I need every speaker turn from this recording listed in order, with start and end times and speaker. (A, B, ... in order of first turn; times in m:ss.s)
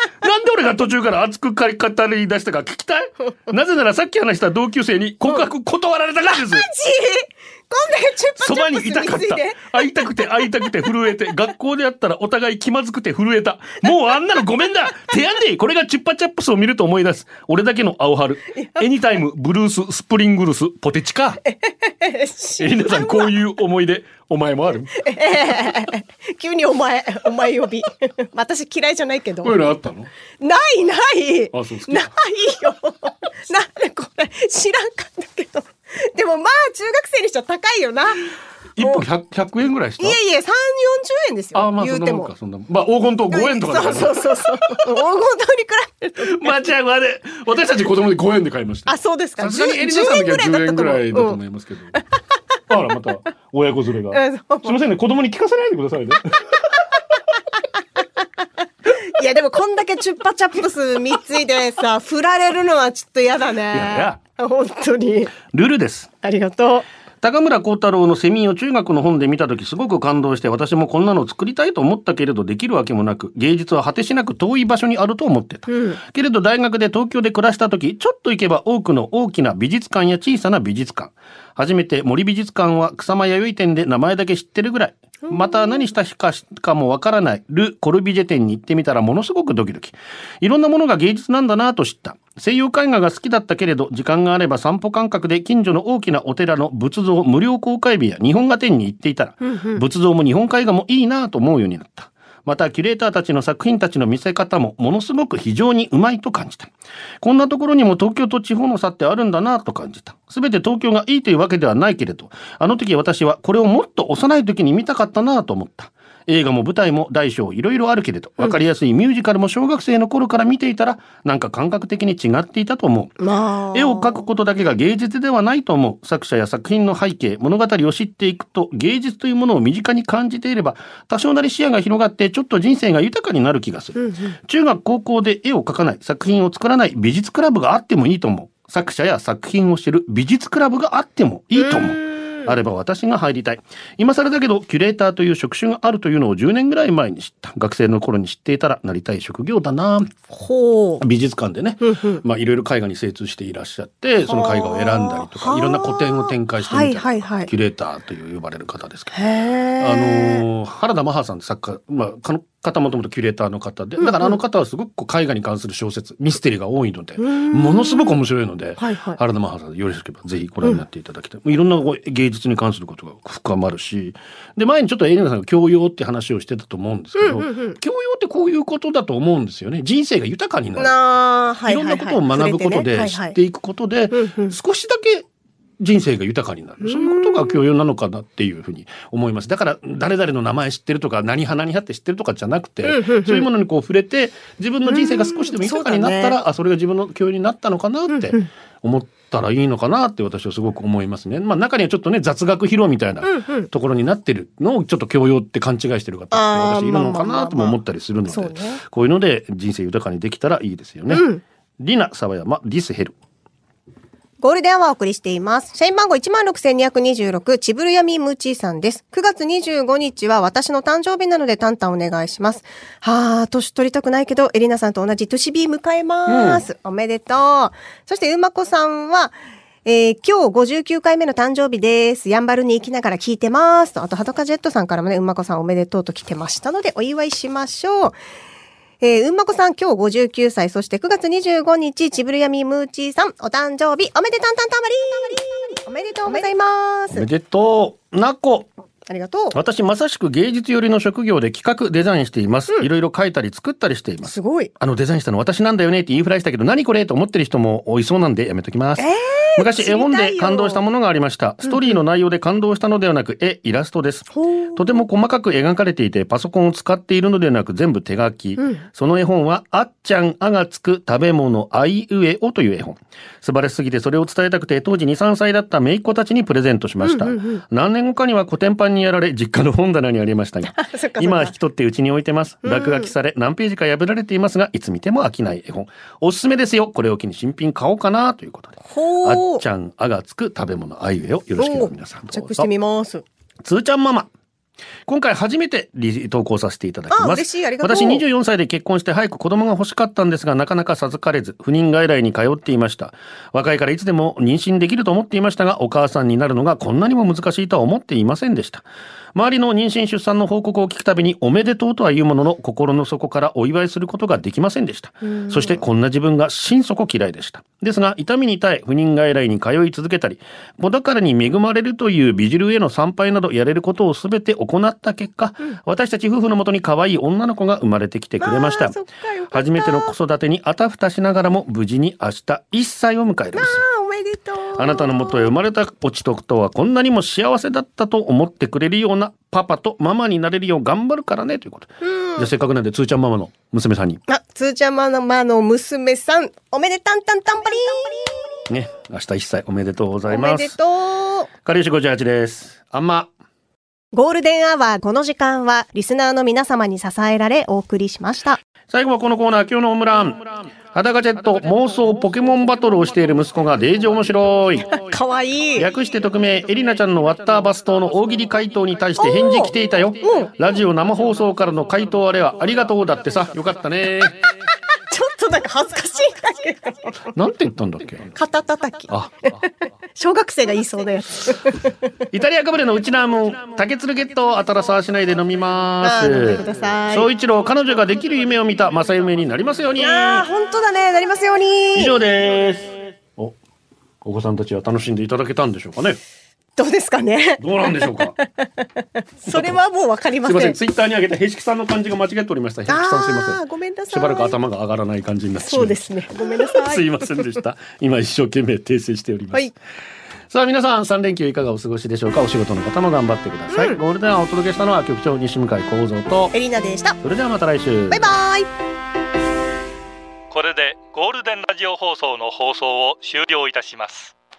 0:00.2-0:06.6 A
0:06.3-0:09.9 B
0:08.4-0:21.4 A
0:21.5-0:23.3 B
0:22.6-0:24.9 A
0:25.0-0:29.6 B
0:29.4-0:30.1 A
0:30.4-0:39.0 B
0:31.5-0:32.1 A
0:38.8-0:40.2 A
0:40.0-0:42.3 B
0:41.5-0:44.8 A
0:43.3-0:46.5 B
0:46.2-0:51.9 A
0:48.9-0:51.4 B
0:52.7-0:56.4 A
0:54.1-0:54.8 B
0:58.9-1:05.3 B
1:03.7-1:04.2 A
1:05.4-1:06.1 A
1:06.2-1:06.8 B
1:07.2-2:03.2 A
1:15.7-1:16.0 B
1:39.4-1:39.8 B
2:03.2-2:04.2 B
2:03.7-2:30.1 A
2:14.0-2:14.4 B
2:21.5-2:22.5 B
2:30.3-2:31.0 B
2:31.0-2:39.1 A
2:31.8-2:32.2 B
2:34.3-2:37.5 B
2:39.1-2:40.4 B
2:39.8-3:01.0 A
2:44.0-2:44.4 B
2:47.2-2:48.1 B
2:48.8-2:49.2 B
2:57.2-2:57.8 B
3:00.8-3:03.4 B
3:01.7-3:05.2 A
3:04.1-3:04.5 B
3:05.8-3:31.2 A
3:06.8-3:07.6 B
3:12.8-3:13.4 B
3:14.8-3:16.4 B
3:18.1-3:18.5 B
3:23.2-3:23.7 B
3:26.3-3:27.8 B
3:28.3-3:28.8 B
3:31.1-3:31.4 B
3:31.8-3:33.1 A
3:34.4-3:58.2 B
3:46.2-3:46.6 A
3:59.0-4:07.3 B
4:07.1-4:08.7 A
4:09.1-4:09.6 B
4:09.5-4:52.7 A
4:14.2-4:14.7 B
4:19.0-4:20.8 B
4:21.6-4:21.9 B
4:24.3-4:24.8 B
4:28.6-4:28.8 B
4:37.0-4:37.6 B
4:40.7-4:41.5 B
4:42.6-4:43.1 B
4:48.9-4:49.6 B
4:51.6-4:53.2 B
4:53.6-4:54.3 A
4:55.0-5:28.9 A
4:57.1-4:58.2 B
5:28.4-5:30.1 B
5:29.5-5:33.8 A
5:33.6-5:35.5 B
5:34.8-5:44.2 A
5:42.0-5:42.5 B
5:44.3-5:48.6 B
5:48.7-5:50.7 A
5:50.3-5:51.5 B
5:51.6-5:53.3 A
5:54.1-5:58.6 B
5:58.9-6:05.0 A
6:05.0-6:05.9 B
6:05.8-6:14.4 A
6:09.2-6:10.5 B
6:15.1-6:17.2 B
6:17.3-6:18.3 A
6:18.3-6:19.1 B
6:19.1-6:19.5 A
6:20.2-6:21.9 B
6:22.3-6:30.4 A
6:26.0-6:27.3 B
6:30.0-6:32.1 B
6:31.9-6:33.6 A
6:34.2-6:36.2 A
6:36.8-6:40.8 B
6:37.6-6:38.3 A
6:39.5-6:39.8 A
6:40.4-6:43.6 A
6:42.9-6:44.5 B
6:44.1-6:49.6 A
6:45.6-6:47.0 B
6:50.5-6:56.5 A
6:53.7-6:54.0 B
6:56.5-6:57.2 B
6:57.2-6:58.3 A
6:58.1-6:58.7 B
7:00.5-7:04.3 C